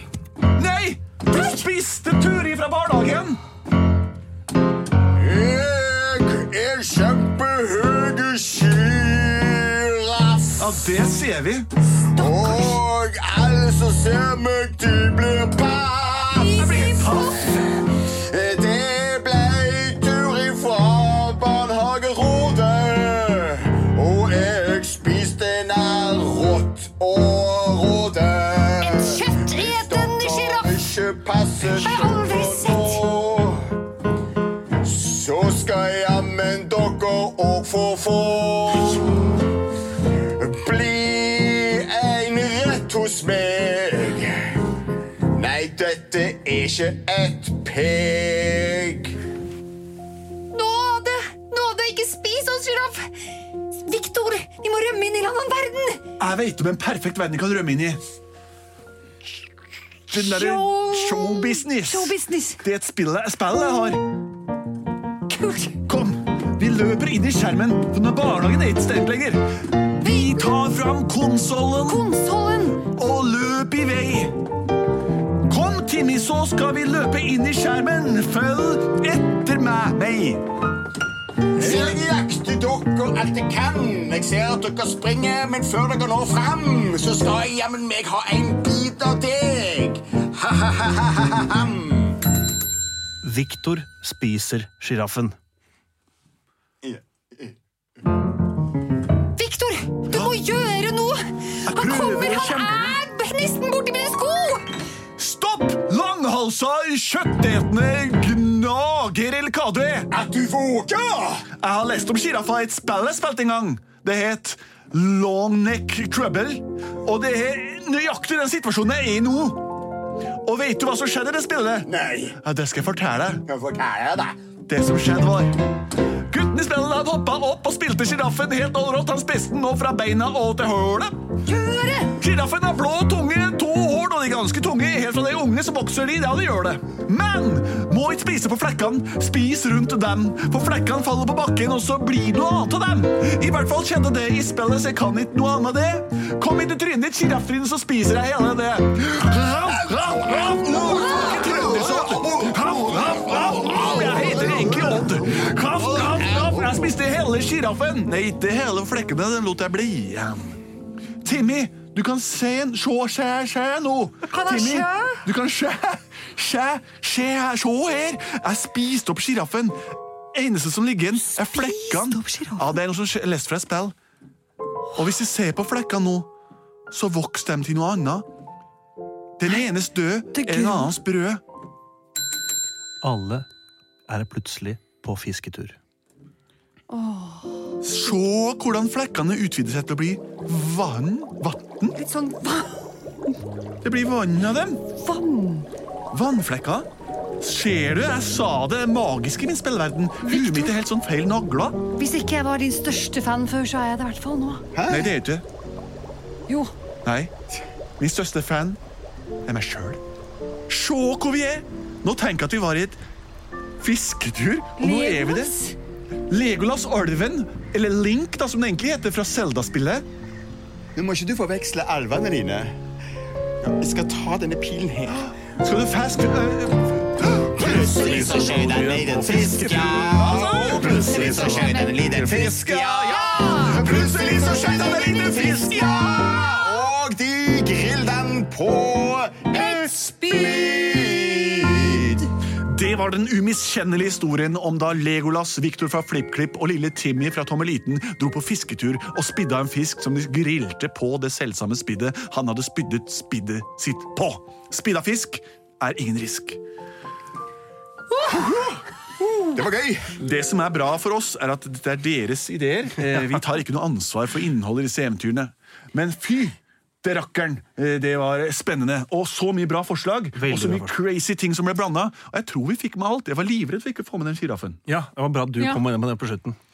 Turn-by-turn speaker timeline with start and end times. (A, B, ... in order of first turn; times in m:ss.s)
0:00.6-0:03.4 A
0:05.0-0:10.9 B
0:10.6-0:11.7 A
0:12.1-0:16.7 B
0:12.1-0:12.8 C
0:16.3-0:17.6 C
0:16.5-0:17.6 A
0:17.5-0:33.8 B
0:28.8-0:30.8 C
0:31.7-0:33.0 C
0:34.8-0:39.4 B
0:40.0-0:44.7 B
0:45.3-0:49.2 B
0:50.5-0:56.0 C
0:56.2-0:58.0 A
1:00.1-1:02.6 C
1:00.1-1:04.0 A
1:05.3-1:05.8 C
1:05.8-1:12.1 A
1:11.8-1:12.8 C
1:12.8-1:14.3 A
1:15.5-1:20.4 A
1:21.5-1:32.2 B
1:33.2-1:35.4 D
1:36.8-1:37.5 B
1:39.4-1:44.6 C
1:40.1-1:40.4 A
1:41.6-1:42.9 A
1:45.2-1:50.1 A
1:50.1-1:51.5 B
1:51.6-1:59.7 A
2:00.4-2:01.9 A
2:01.8-2:02.4 B
2:02.4-2:03.4 A
2:03.4-2:04.4 B
2:04.7-2:05.6 A
2:06.2-2:11.2 A
2:11.4-2:12.2 C
2:12.1-2:40.6 A
2:30.7-2:36.8 B
2:41.2-2:53.9 A
2:44.3-2:45.2 C
2:51.2-2:52.8 C
2:55.0-2:56.3 A
2:56.9-2:58.2 A
2:59.4-3:01.4 A
3:00.3-3:00.9 C
3:03.0-3:03.5 D
3:04.1-3:05.8 D
3:06.9-3:07.8 C
3:07.8-3:12.0 A
3:11.9-3:13.3 C
3:13.8-3:14.8 A
3:14.9-3:15.7 C
3:16.1-3:16.9 A
3:17.4-3:21.8 A
3:20.2-3:20.8 C
3:22.0-3:24.7 C
3:24.7-3:25.1 B
3:24.9-3:25.4 A
3:27.0-3:27.3 A
3:28.0-3:28.8 A
3:29.4-3:30.0 A
3:30.7-3:33.0 A
3:33.8-3:35.5 A
3:34.8-3:35.8 C
3:36.3-3:40.0 A
3:41.0-3:42.8 B
3:43.6-3:45.3 B
3:45.2-3:56.0 A
3:47.5-4:02.2 B
3:50.4-3:52.0 C
3:53.0-3:53.9 C
3:55.5-3:56.9 C
3:59.8-4:02.0 C
4:02.5-4:16.6 A
4:18.3-4:18.6 B
4:19.4-4:20.2 B
4:20.2-4:34.8 A
4:30.4-4:31.0 D
4:34.9-4:36.6 D